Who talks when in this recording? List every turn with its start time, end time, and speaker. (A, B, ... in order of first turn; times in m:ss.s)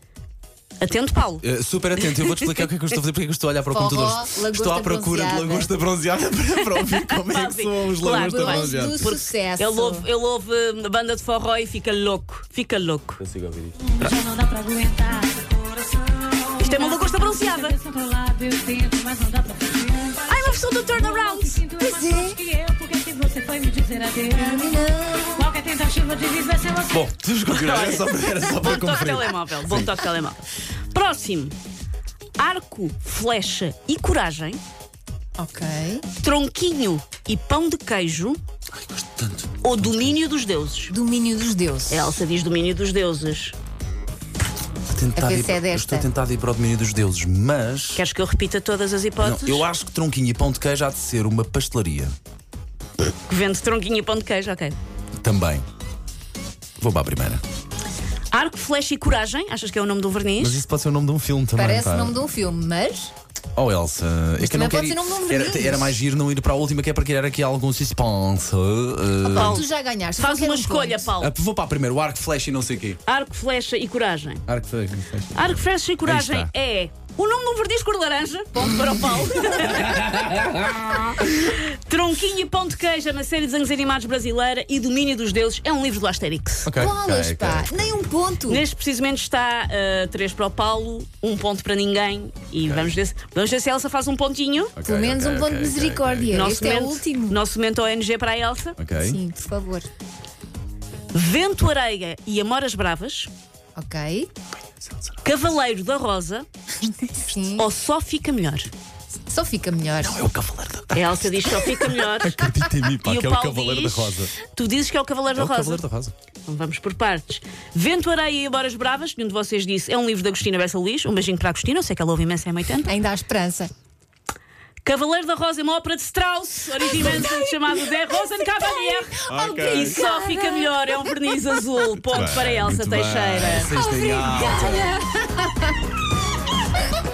0:00.8-0:01.4 A
0:01.4-0:09.0 B
0:02.0-0:02.6 A
0:03.7-0:05.7 C
0:06.8-0:13.2 A
0:08.1-0:10.0 C
0:13.2-0:14.2 B
0:14.0-0:24.8 D
0:16.6-0:17.8 A
0:20.2-0:21.6 A
0:21.8-0:22.4 C
0:24.2-0:25.5 C
0:25.4-0:26.9 D
0:26.8-0:29.9 B
0:27.4-0:31.5 A
0:32.4-0:34.6 A
0:35.4-0:36.0 C
0:36.2-0:38.4 A
0:38.8-0:40.2 B
0:39.6-0:40.9 A
0:40.9-0:42.2 C
0:41.9-0:43.5 A
0:44.9-0:48.0 B
0:45.2-0:46.1 C
0:48.0-0:49.6 A
0:49.2-0:52.1 B
0:53.2-0:54.8 A
0:55.2-0:55.6 B
0:56.8-0:57.4 B
0:58.3-1:00.6 A
1:00.4-1:02.2 B
1:01.5-1:03.1 C
1:03.5-1:09.6 B
1:04.4-1:06.0 C
1:09.2-1:11.1 C
1:09.3-1:11.3 A
1:11.2-1:13.0 B
1:13.0-1:14.4 A
1:14.5-1:16.5 B
1:15.3-1:20.4 A
1:18.6-1:21.1 B
1:21.1-1:26.7 A
1:26.6-1:27.9 B
1:26.7-1:28.6 C
1:28.5-1:34.8 A
1:32.6-1:32.9 B
1:34.8-1:36.5 B
1:34.8-1:37.4 C
1:36.3-1:38.8 A
1:38.8-1:39.2 B
1:39.0-1:39.9 C
1:41.1-1:43.3 A
1:43.8-1:44.3 C
1:45.2-1:46.4 A
1:47.3-1:47.6 C
1:47.5-1:48.7 A
1:49.3-1:50.2 C
1:50.0-1:54.3 B
1:50.9-1:52.4 A
1:53.0-1:55.8 A
1:55.3-1:56.1 B
1:56.4-2:02.9 A
2:02.8-2:03.7 C
2:04.8-2:13.7 A
2:07.0-2:07.4 C
2:09.0-2:10.6 C
2:09.3-2:10.0 B
2:12.0-2:15.0 B
2:13.8-2:15.4 C